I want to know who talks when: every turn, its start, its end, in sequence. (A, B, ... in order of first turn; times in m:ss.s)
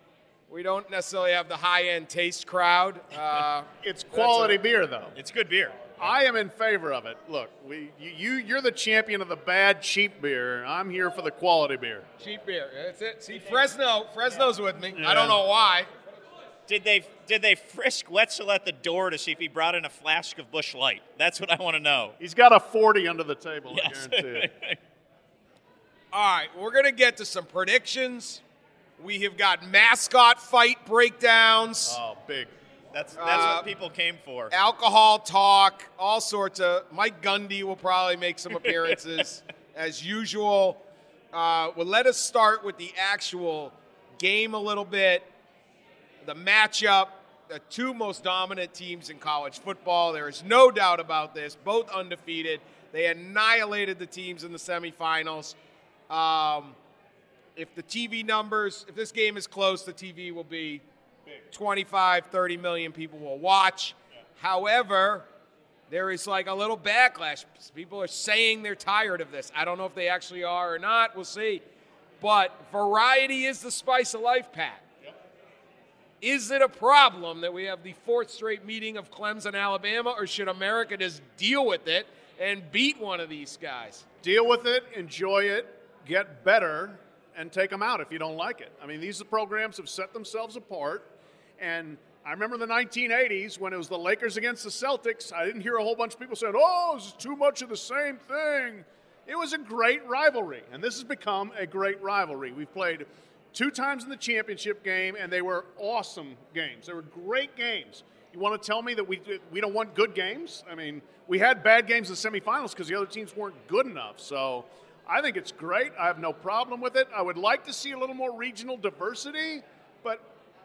0:00.5-0:04.6 A
0:03.8-0:05.1 B
0:05.1-0:05.9 C
0:06.0-0:12.0 B
0:12.2-0:15.9 A
0:14.9-0:15.4 B
0:16.7-0:22.2 C
0:22.2-0:24.5 B
0:23.7-0:24.8 C
0:26.1-0:28.4 A
0:29.0-0:32.0 A
0:31.8-0:32.5 B
0:32.9-0:34.5 C
0:33.2-0:33.7 A
0:34.5-0:45.3 A
0:46.2-0:55.6 A
0:56.1-0:56.8 A
0:57.6-1:00.8 A
1:01.5-1:05.3 A
1:05.9-1:11.6 A
1:12.2-1:14.8 A
1:16.2-1:24.0 A
1:24.2-2:00.2 B